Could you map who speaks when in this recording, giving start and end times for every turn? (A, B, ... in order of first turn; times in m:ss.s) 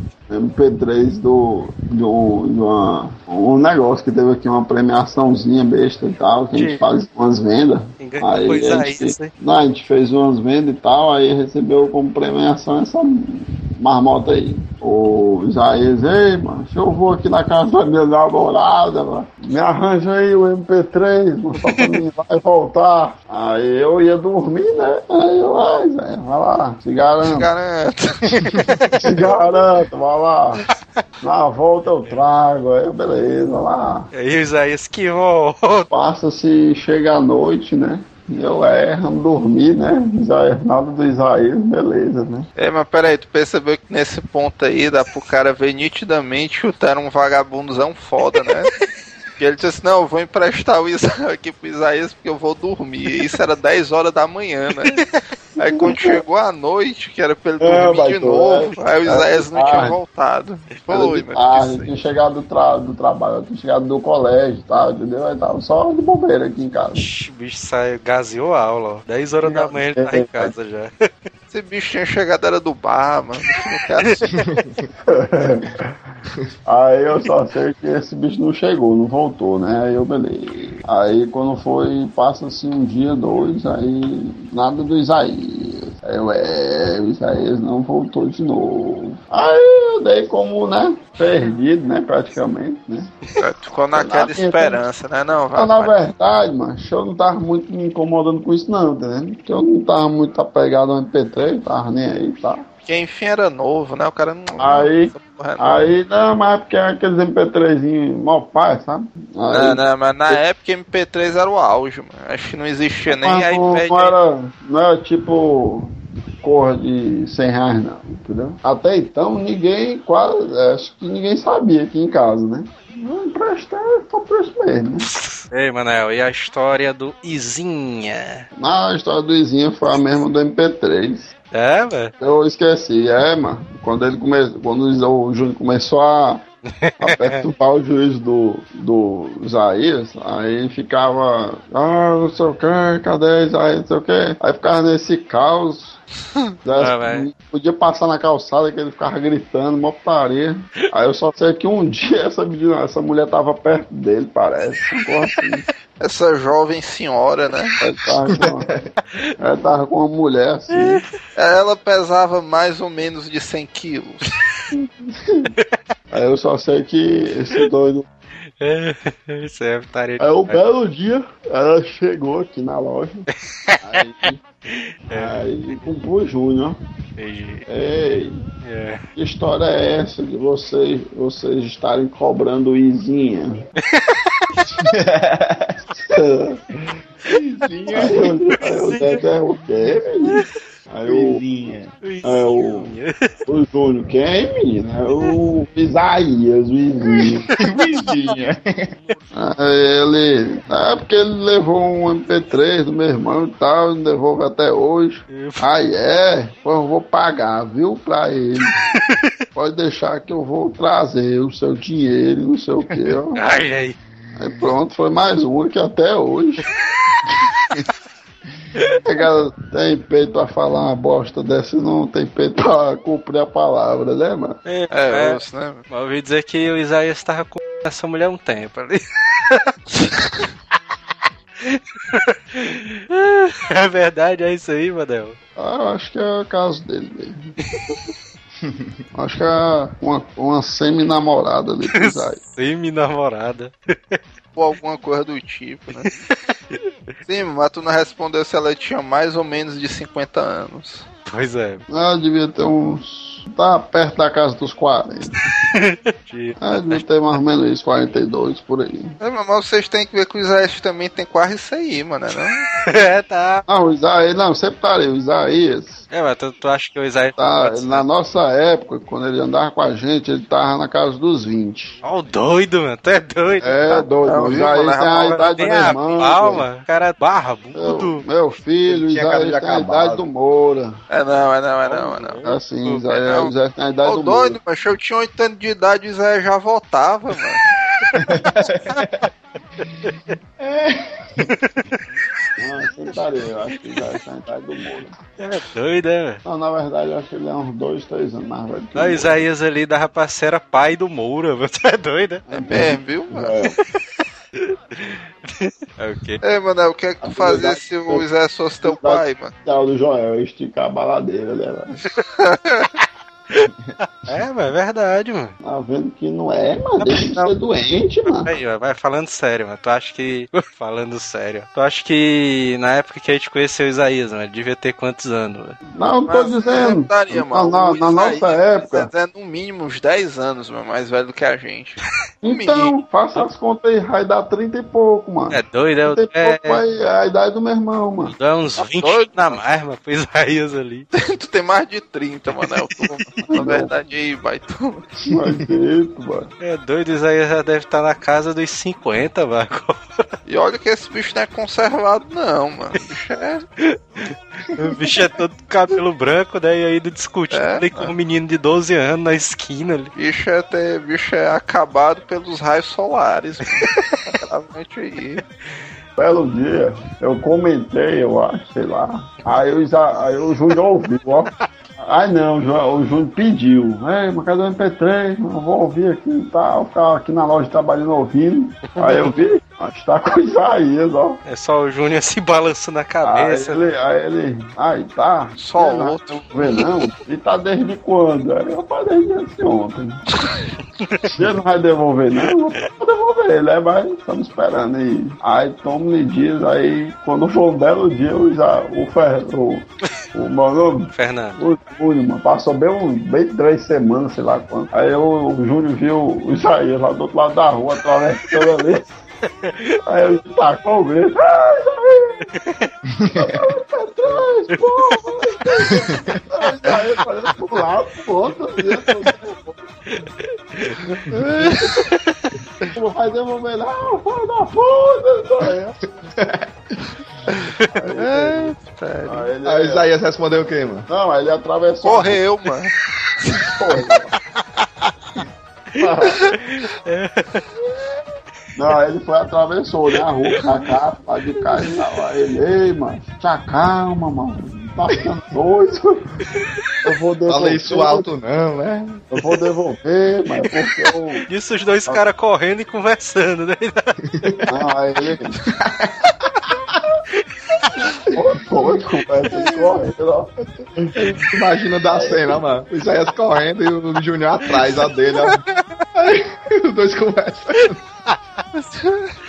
0:00.3-0:27.5 A
0:06.5-0:06.8 B
0:08.0-0:09.3 B
0:27.2-0:28.5 C
0:28.4-0:29.0 D
0:28.8-0:29.3 B
0:29.0-0:30.6 A
0:30.7-0:31.0 B
0:31.2-0:34.1 A
0:34.1-0:35.9 B
0:35.9-0:42.5 A
0:42.6-0:48.7 C
0:49.4-0:55.0 C
0:55.6-0:56.2 A
0:55.6-1:01.9 C
0:57.6-1:00.0 A
1:00.9-1:07.0 A
1:07.0-1:11.1 B
1:09.4-1:10.5 A
1:11.5-1:14.3 C
1:14.4-1:14.8 D
1:15.1-1:15.9 A
1:16.6-1:33.1 A
1:33.4-1:36.0 C
1:33.9-1:34.8 A
1:35.6-1:42.6 A
1:42.8-1:45.8 C
1:44.6-1:50.4 A
1:49.5-1:54.1 C
1:53.1-2:05.1 A
2:05.0-2:08.5 B
2:08.6-2:11.3 A
2:11.5-2:12.1 B
2:12.2-2:16.4 A
2:16.7-2:17.4 B
2:17.0-2:26.0 A
2:26.6-2:35.6 A
2:26.8-2:27.3 B
2:36.0-2:37.8 C
2:37.8-2:38.7 A
2:38.2-2:38.9 D
2:39.4-2:41.0 A
2:40.7-2:41.0 B
2:41.4-2:44.2 C
2:44.7-2:45.5 A
2:46.1-2:48.1 A
2:48.6-2:50.6 B
2:50.2-2:53.2 A
2:53.6-2:53.8 B
2:53.8-2:54.4 A
2:54.7-2:55.7 B
2:55.1-2:56.8 A
2:57.2-2:57.6 B
2:57.7-2:58.4 A
2:58.6-2:59.0 B
2:59.2-3:03.7 A
3:03.8-3:04.6 B
3:04.7-3:05.8 D
3:06.0-3:06.9 A
3:07.3-3:08.6 D
3:07.9-3:09.2 B
3:07.9-3:11.4 A
3:10.2-3:10.5 B
3:11.0-3:11.9 D
3:12.0-3:13.5 B
3:12.2-3:12.9 A
3:13.5-3:17.5 A
3:17.5-3:18.3 B
3:17.6-3:18.9 D
3:19.3-3:28.7 A
3:25.3-3:25.6 B
3:29.5-3:33.4 A
3:33.3-3:34.0 B
3:34.4-3:36.6 A
3:37.0-3:37.3 B
3:39.0-3:44.6 A
3:44.6-3:49.7 B
3:44.9-3:45.8 C
3:49.9-3:50.5 C
3:51.6-3:55.4 B
3:55.6-3:58.0 A
3:59.1-4:02.4 A
4:01.9-4:04.2 B
4:04.6-4:06.1 C
4:06.0-4:06.8 B
4:07.2-4:11.0 C
4:11.2-4:11.8 B
4:11.9-4:15.3 A
4:15.6-4:17.0 B
4:16.6-4:19.1 A
4:19.2-4:22.6 C
4:22.8-4:23.6 B
4:23.7-4:26.0 A
4:26.1-4:28.1 B
4:27.4-4:32.0 A
4:32.0-4:33.7 B
4:33.6-4:36.7 A
4:33.9-4:35.4 C
4:35.5-4:38.2 B
4:37.7-4:41.0 A
4:38.9-4:40.2 D
4:41.1-4:42.4 C
4:41.9-4:42.6 B
4:42.4-4:44.6 A
4:42.9-4:47.6 C
4:48.1-4:49.3 B
4:48.1-4:49.3 D
4:49.8-4:50.4 B
4:50.0-4:51.5 D
4:51.5-4:52.0 B
4:52.6-4:55.2 A
4:55.4-4:56.4 B
4:56.4-4:59.4 A
4:59.0-5:02.4 B
5:02.5-5:03.8 A
5:02.6-5:03.6 C
5:04.6-5:06.4 B
5:06.4-5:09.5 C
5:07.2-5:08.2 A
5:08.8-5:12.0 A
5:12.4-5:12.9 C
5:13.0-5:15.5 B
5:15.6-5:18.5 A
5:17.0-5:17.5 B
5:18.2-5:25.8 B
5:26.0-5:29.1 A
5:26.3-5:32.9 C
5:32.4-5:38.4 A
5:35.5-5:36.8 B
5:38.3-5:41.1 B
5:38.9-5:39.6 C
5:41.1-5:45.1 C
5:42.5-5:43.5 B
5:43.5-5:43.9 A
5:45.2-5:46.5 A
5:45.3-5:45.7 D
5:46.6-5:50.3 B
5:50.4-5:53.6 C
5:53.8-6:00.1 B
5:57.5-5:58.1 C
6:00.1-6:05.4 C
6:03.8-6:04.3 B
6:06.2-6:21.4 A
6:18.9-6:19.4 B
6:21.4-6:23.8 B
6:23.2-6:30.2 A
6:25.6-6:26.8 C
6:31.0-6:31.4 B
6:31.3-6:49.0 A
6:41.1-6:41.6 B
6:49.4-6:50.0 B
6:50.0-6:52.5 A
6:52.6-6:52.9 B
6:53.2-6:53.7 D
6:53.3-6:59.8 A
6:54.7-6:56.0 B
6:55.9-6:56.4 D
6:56.8-6:57.6 B
6:58.9-6:59.3 B
7:00.1-7:02.9 B
7:01.3-7:01.9 C
7:02.9-7:06.1 A
7:06.4-7:06.7 D
7:07.7-7:08.0 B
7:07.9-7:10.0 A
7:08.1-7:09.5 C
7:09.6-7:11.1 D
7:11.1-7:12.4 A
7:12.0-7:12.9 C
7:13.6-7:14.3 A
7:14.6-7:15.1 B
7:15.9-7:17.7 B
7:16.0-7:16.5 A
7:18.7-7:28.3 A
7:27.5-7:29.2 D
7:29.3-7:31.4 A
7:31.5-7:34.5 B
7:34.4-7:34.7 D
7:34.7-7:35.5 A
7:35.6-7:36.3 D
7:38.3-7:41.3 A
7:38.3-7:40.0 D
7:41.2-7:45.6 D
7:42.1-7:42.6 A
7:46.1-7:48.0 D
7:48.7-7:49.3 C